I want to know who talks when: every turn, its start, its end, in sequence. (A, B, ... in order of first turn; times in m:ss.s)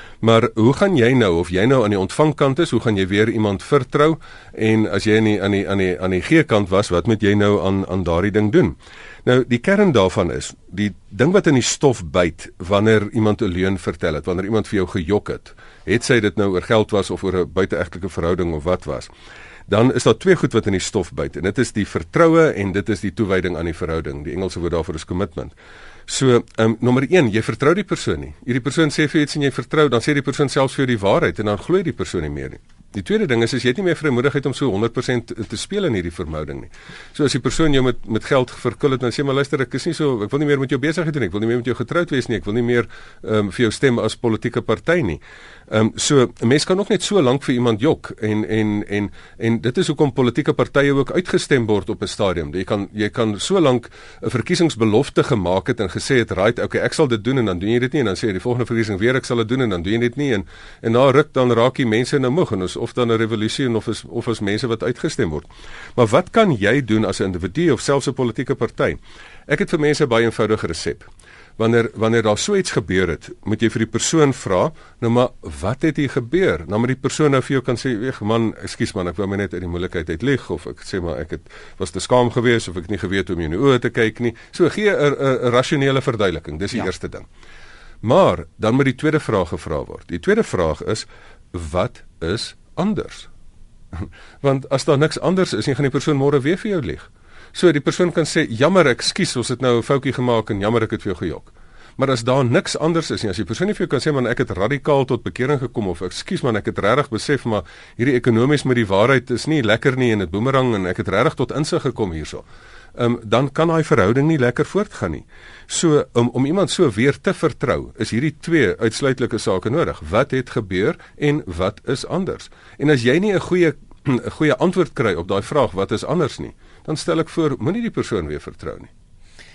0:00.2-0:19.1 A
0:19.7-0:25.5 A
0:26.1-1:27.2 A
1:28.0-1:33.3 A
1:33.9-2:08.9 A